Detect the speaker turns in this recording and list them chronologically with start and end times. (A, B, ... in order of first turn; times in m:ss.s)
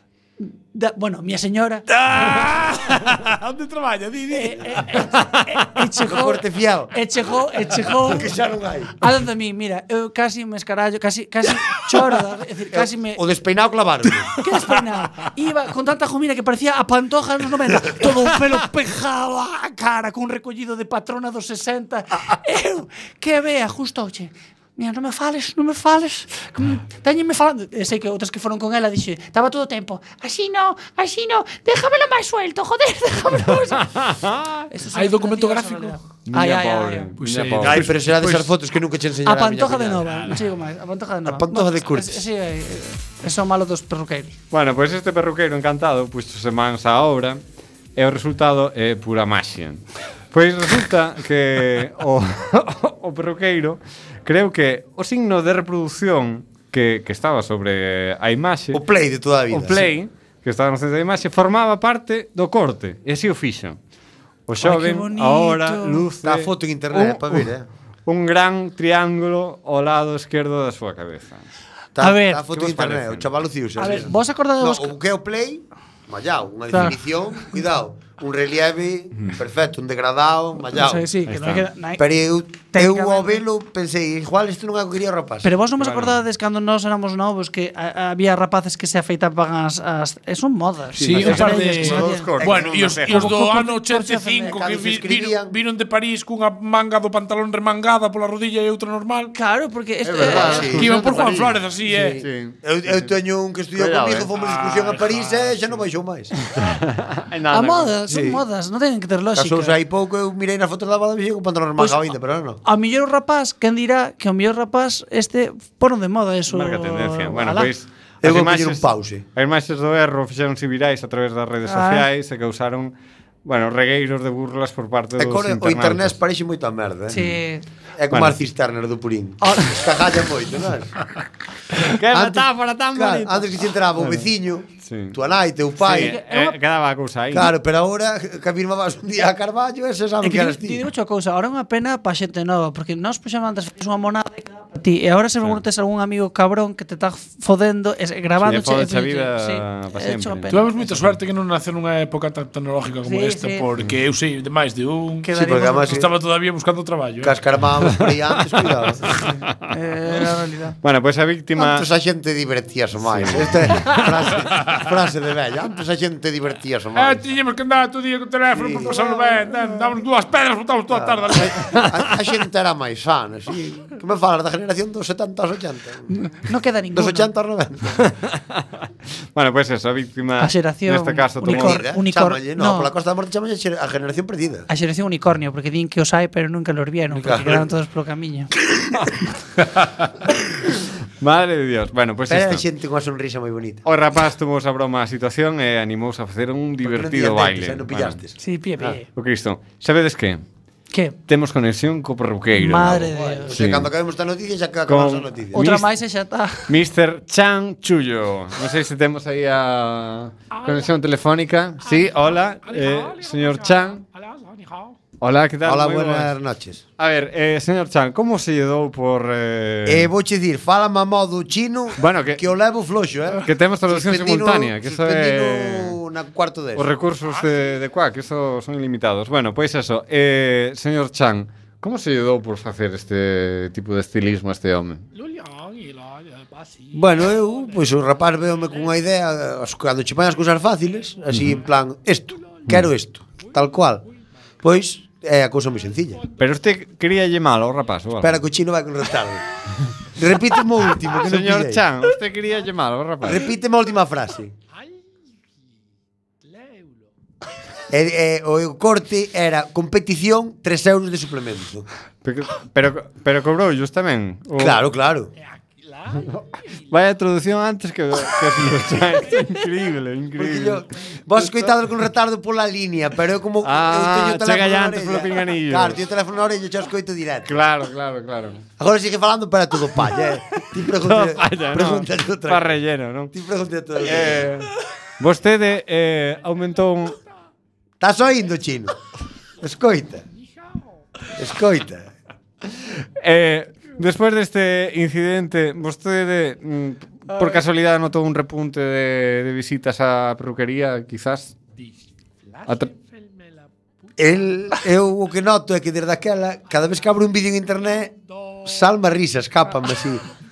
0:00.4-0:01.9 A
0:01.9-0:04.8 B
0:04.3-0:08.3 A
0:06.0-0:06.9 C
0:07.9-0:08.9 C
0:09.0-0:13.2 A
0:12.7-0:14.3 C
0:14.4-0:33.9 A
0:33.7-0:34.7 D
0:34.7-0:37.1 A
0:34.9-0:36.0 B
0:36.3-0:37.9 D
0:37.2-0:38.5 B
0:37.6-0:40.1 C
0:39.2-0:44.3 A
0:41.3-0:42.2 C
0:44.5-0:47.4 D
0:48.0-0:58.8 D
0:58.7-0:59.9 C
0:59.5-1:03.8 D
1:04.5-1:07.5 D
1:04.6-1:06.1 A
1:06.2-1:07.7 C
1:08.1-1:11.4 D
1:12.0-1:21.1 C
1:12.0-1:12.4 A
1:12.5-1:13.3 D
1:13.8-1:15.0 A
1:16.7-1:17.0 A
1:20.7-1:22.1 A
1:21.3-1:21.7 D
1:22.0-1:25.5 C
1:22.7-1:23.4 A
1:25.4-1:32.3 A
1:25.8-1:26.2 D
1:31.0-1:33.1 C
1:31.0-1:39.3 B
1:31.1-1:33.3 D
1:33.1-1:34.5 A
1:34.4-1:35.6 C
1:39.3-1:40.7 A
1:40.0-1:43.1 D
1:40.2-1:41.1 C
1:40.7-1:42.2 B
1:41.8-1:46.4 C
1:43.8-1:44.9 D
1:44.4-1:45.5 B
1:46.6-1:48.0 D
1:47.5-1:49.8 A
1:48.1-1:48.4 C
1:49.4-1:52.6 C
1:52.6-1:57.7 A
1:56.5-2:02.9 D
1:58.2-1:59.2 C
2:01.6-2:02.1 A
2:03.4-2:06.2 D
2:05.2-2:07.4 C
2:07.1-2:07.6 A
2:08.0-2:11.0 C
2:08.1-2:08.4 D
2:11.8-2:14.3 D
2:12.1-2:16.2 C
2:14.8-2:15.2 D
2:15.8-2:17.5 D
2:15.8-2:16.6 A
2:17.3-2:20.8 C
2:20.2-2:30.8 A
2:28.4-2:30.5 D
2:30.5-2:37.3 B
2:33.0-2:33.7 A
2:35.2-2:36.0 A
2:35.3-2:36.1 C
2:37.2-2:39.1 C
2:39.1-2:40.8 A
2:40.8-2:41.9 D
2:41.6-2:47.2 C
2:43.0-2:44.7 D
2:47.0-2:51.8 B
2:48.5-2:49.5 C
2:50.9-2:56.2 C
2:51.7-2:52.0 D
2:56.1-2:57.3 A
2:56.9-2:58.0 C
2:57.9-2:58.7 D
2:59.4-3:01.8 D
3:00.4-3:02.9 A
3:01.4-3:04.7 C
3:04.7-3:08.5 A
3:07.1-3:07.7 C
3:11.2-3:12.6 D
3:12.3-3:13.8 C
3:13.8-3:18.2 D
3:16.8-3:18.3 C
3:18.4-3:19.0 A
3:18.8-3:20.4 D
3:20.9-3:21.2 A
3:21.3-3:23.9 D
3:22.6-3:23.5 A
3:23.0-3:25.8 C
3:24.9-3:25.9 D
3:25.5-3:26.7 A
3:26.7-3:34.0 D
3:30.5-3:30.9 B
3:31.8-3:35.0 B
3:35.2-3:36.3 D
3:35.6-3:36.8 C
3:37.0-3:40.1 D
3:39.9-3:46.9 C
3:42.0-3:42.4 D
3:43.4-3:46.0 D
3:46.8-3:55.1 D
3:55.2-3:57.0 B
3:56.9-4:04.0 C
4:01.3-4:01.6 D
4:04.6-4:06.2 C
4:06.4-4:08.4 D
4:08.2-4:09.4 C
4:10.2-4:11.8 C
4:11.2-4:13.5 D
4:13.2-4:14.5 C
4:17.9-4:21.9 C
4:22.2-4:24.8 D
4:24.6-4:25.3 C
4:25.9-4:26.3 B
4:26.3-4:31.8 D
4:30.4-4:37.6 C
4:33.6-4:36.0 D
4:37.5-4:38.6 D
4:38.8-4:42.8 C
4:40.9-4:43.3 D
4:43.3-4:44.5 C
4:44.0-4:47.2 D
4:48.0-4:49.0 C
4:49.6-4:50.2 C
4:51.4-4:52.1 C
4:53.2-5:01.6 D
4:57.3-4:57.6 A
5:02.6-5:03.3 B
5:04.2-5:10.2 C